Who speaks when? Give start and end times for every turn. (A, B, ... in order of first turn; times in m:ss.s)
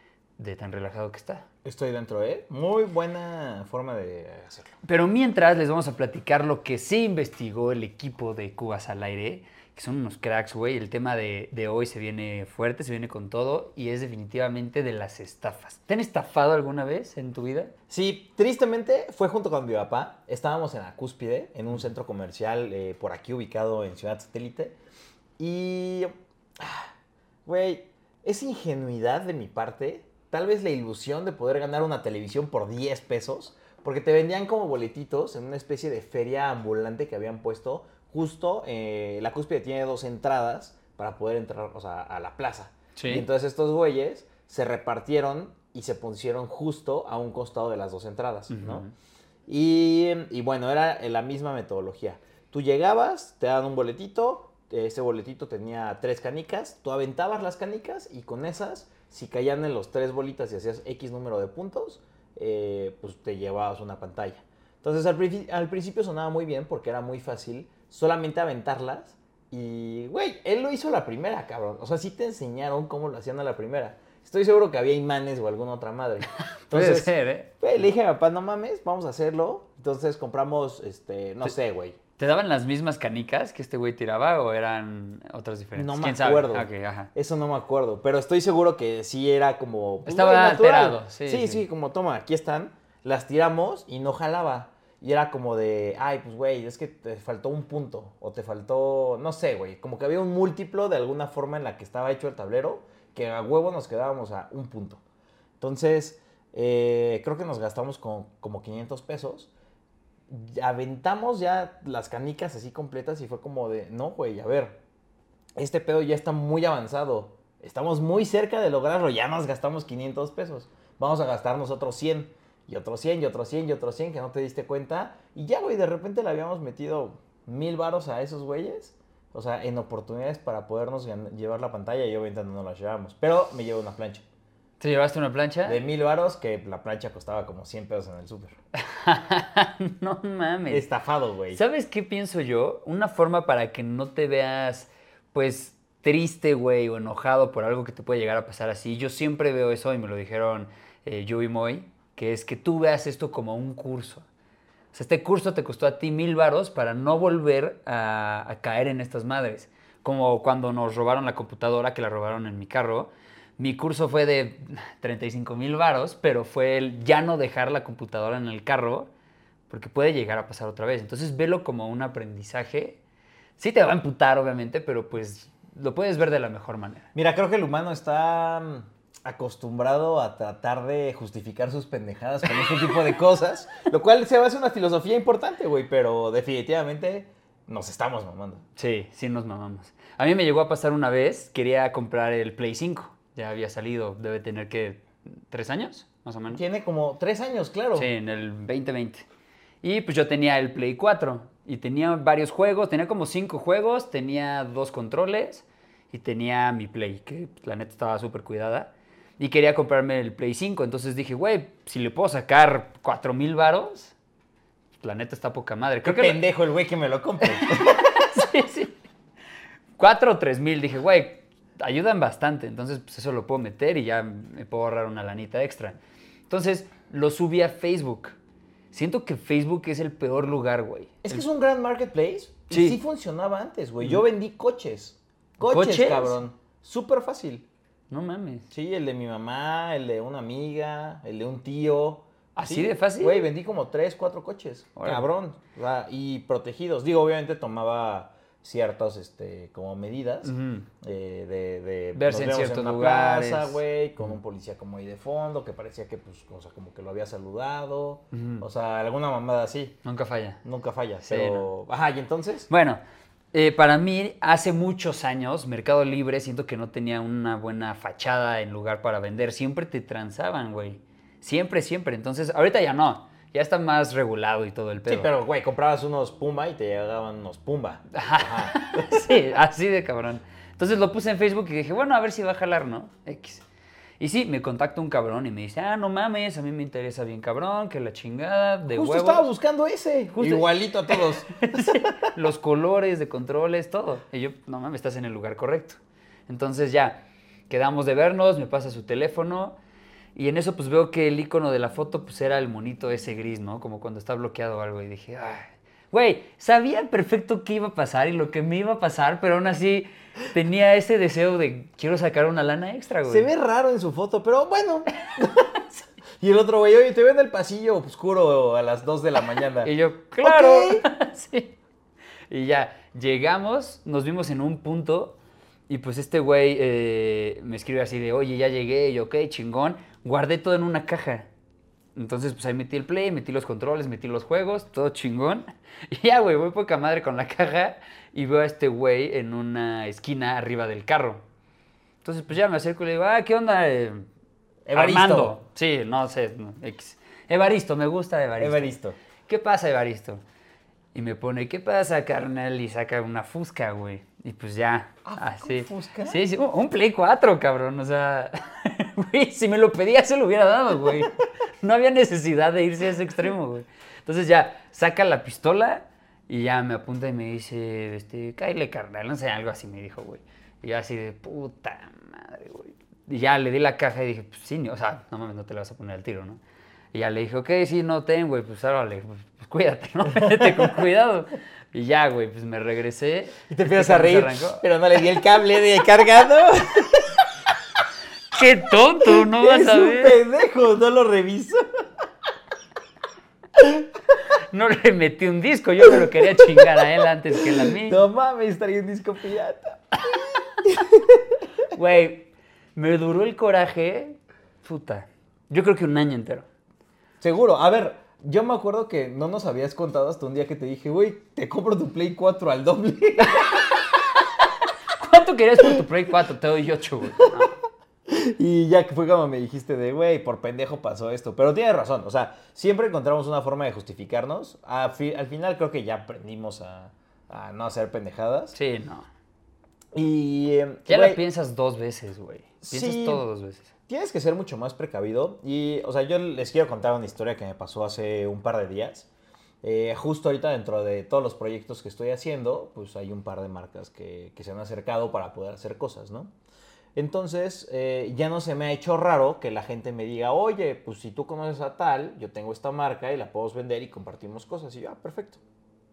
0:00.4-0:01.4 A
0:01.6-0:04.8 B
0:04.8-0:17.7 A
0:17.9-0:24.8 B
0:25.4-0:26.9 B
0:27.4-0:48.8 B
0:43.0-0:43.3 A
0:48.5-0:48.9 A
0:49.5-1:22.0 B
1:16.4-1:17.5 A
1:22.2-1:27.1 A
1:25.7-1:45.0 B
1:30.0-1:31.6 A
1:45.6-1:49.5 B
1:50.3-1:54.8 B
1:55.6-2:14.2 B
2:14.8-2:15.8 A
2:15.6-2:18.5 B
2:18.8-2:20.8 A
2:20.7-2:21.6 B
2:21.5-2:34.2 A
2:34.9-2:49.1 A
2:49.7-2:53.0 A
2:53.6-2:57.1 A
2:57.1-3:08.6 B
3:08.8-3:16.6 A
3:16.5-3:18.1 B
3:17.9-3:19.2 A
3:19.8-3:34.1 A
3:35.0-3:36.4 A
3:36.0-3:38.2 B
3:37.4-3:38.9 A
3:40.0-3:46.0 A
3:46.5-3:48.4 A
3:48.9-3:51.4 A
3:51.2-3:57.6 B
3:52.7-3:53.0 A
3:55.6-3:56.4 A
3:58.1-3:58.7 A
3:58.7-4:20.0 B
4:02.6-4:03.5 A
4:05.0-4:05.2 A
4:10.4-4:10.9 A
4:12.1-4:14.3 A
4:18.3-4:18.6 A
4:20.0-4:20.6 A
4:20.6-4:22.7 B
4:21.2-4:21.7 A
4:22.7-4:23.0 A
4:23.5-4:35.3 A
4:35.0-4:39.4 B
4:38.1-4:43.6 A
4:44.2-4:49.5 A
4:48.9-4:52.2 B
4:50.3-4:59.8 A
5:00.3-5:13.5 A
5:13.3-5:15.7 B
5:16.4-5:19.9 B
5:19.8-5:21.7 A
5:20.4-5:21.1 B
5:22.5-5:25.4 A
5:25.9-5:31.5 A
5:32.1-5:41.4 A
5:42.2-5:44.2 A
5:44.9-5:45.6 B
5:44.9-5:50.4 A
5:48.6-5:49.2 B
5:51.1-6:16.6 A
5:55.2-5:56.4 B
6:17.1-6:24.8 A
6:20.3-6:21.1 B
6:23.7-6:27.4 B
6:28.5-6:30.4 A
6:29.2-6:31.8 B
6:33.8-6:38.2 A
6:36.1-6:41.6 B
6:41.9-6:46.6 A
6:47.4-6:53.9 B
6:55.1-6:57.7 A
6:58.3-7:08.8 B
7:08.7-7:09.3 A
7:10.1-7:11.4 B
7:11.1-7:13.9 A
7:12.8-7:13.4 B
7:14.1-7:19.3 B
7:19.8-7:26.5 B
7:27.1-7:35.6 B